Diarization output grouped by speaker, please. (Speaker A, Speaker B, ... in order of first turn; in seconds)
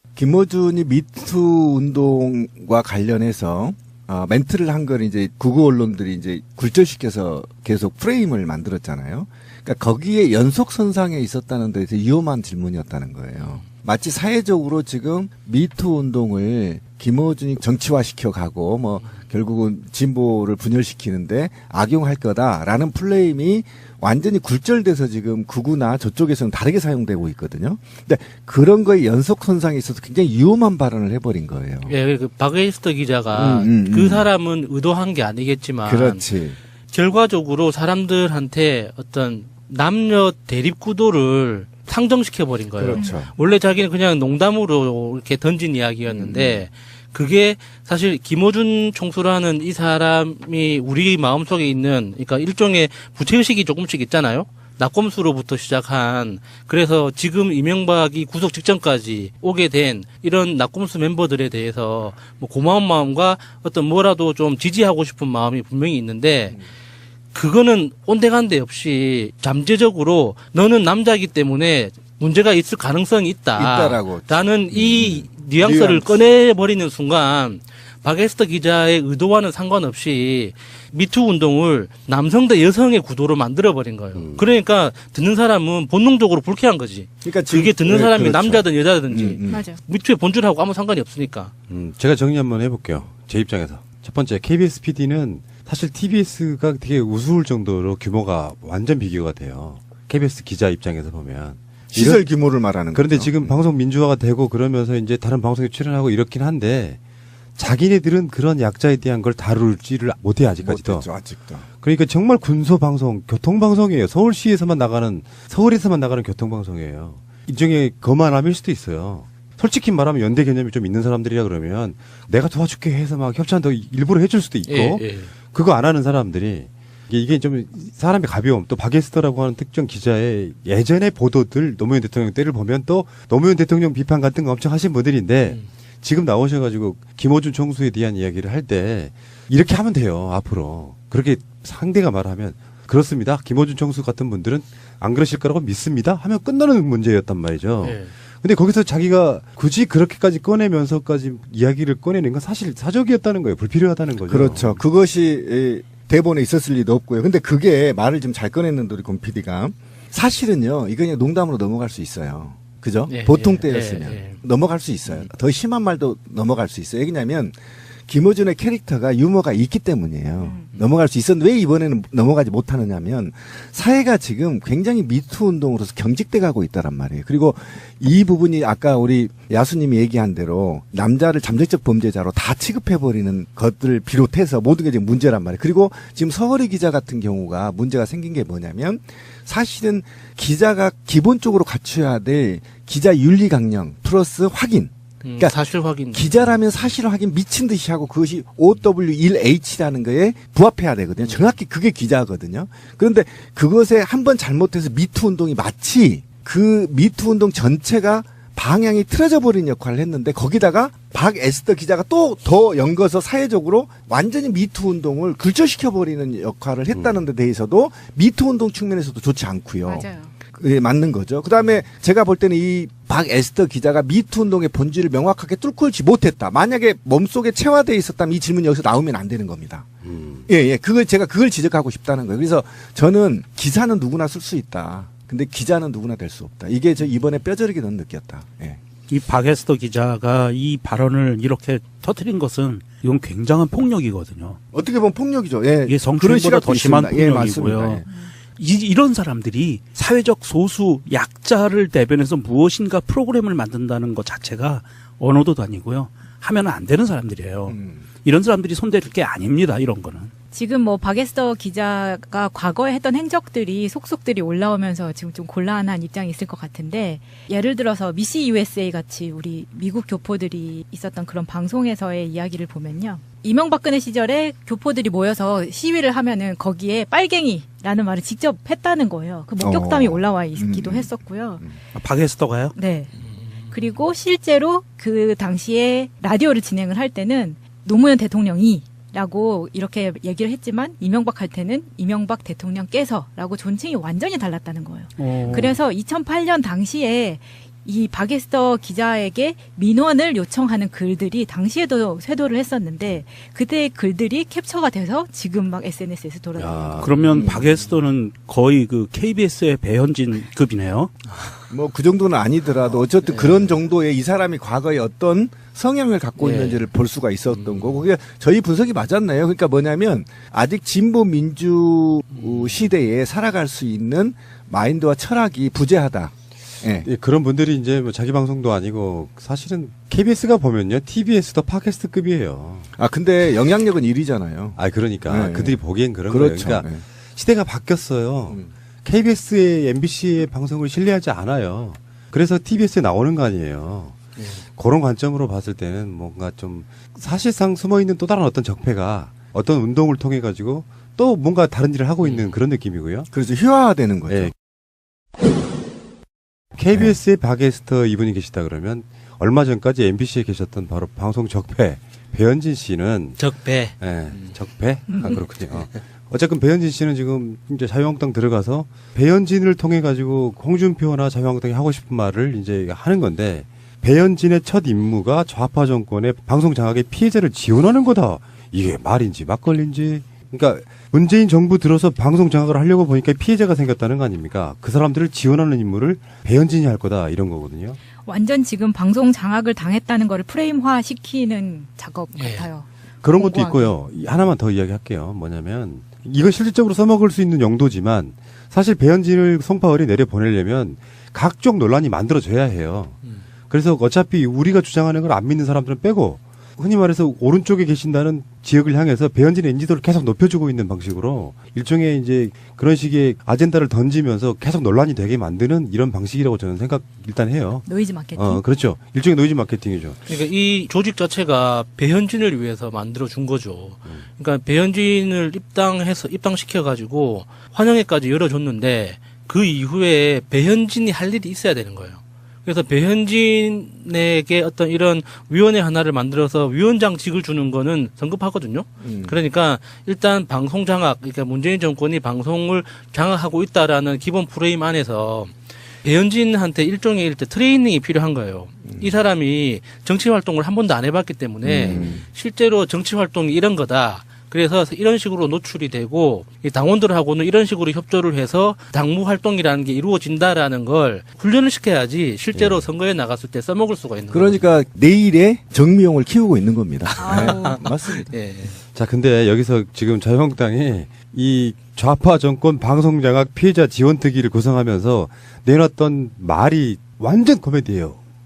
Speaker A: 0.1-31.9, 33.3-34.3, 35.8-36.6, 42.8-43.3, 46.1-46.6, 73.5-76.2, 87.2-89.6, 101.9-103.5, 110.6-111.6, 154.3-167.6, 168.1-195.5, 196.1-229.8, 230.5-238.8, 244.7-248.0, 257.7-258.0, 279.6-281.1, 307.3-307.8, 311.7-327.1, 333.0-335.8, 336.3-337.0, 353.3-354.5, 439.0-439.4, 451.6-452.2, 464.3-468.3
Speaker B: 31.9-36.2, 36.9-66.6, 67.3-91.5, 124.7-125.3, 147.8-148.1, 163.1-164.4, 195.2-196.6, 283.5-283.8, 313.3-313.7, 316.4-316.8, 317.5-318.0, 322.3-322.8, 352.2-352.5, 363.4-364.5, 392.3-392.7, 420.3-464.7, 467.2-468.8
Speaker C: 84.2-84.5, 91.7-102.2, 102.9-107.0, 107.5-111.1, 111.8-154.8, 216.9-217.2, 230.0-230.5, 306.6-307.5, 327.0-332.9, 334.8-353.3, 356.8-363.4, 364.0-388.0, 393.2-403.1, 403.7-420.2, 462.5-462.9, 468.9-478.2
Speaker D: 89.5-89.8, 170.4-170.7, 219.8-220.3, 260.5-281.6, 282.7-283.1, 283.7-307.1, 388.2-392.9, 393.4-393.9, 417.9-418.6, 467.2-467.8
Speaker E: 239.1-244.6, 245.8-260.3, 281.9-282.7, 295.2-295.8, 307.0-311.1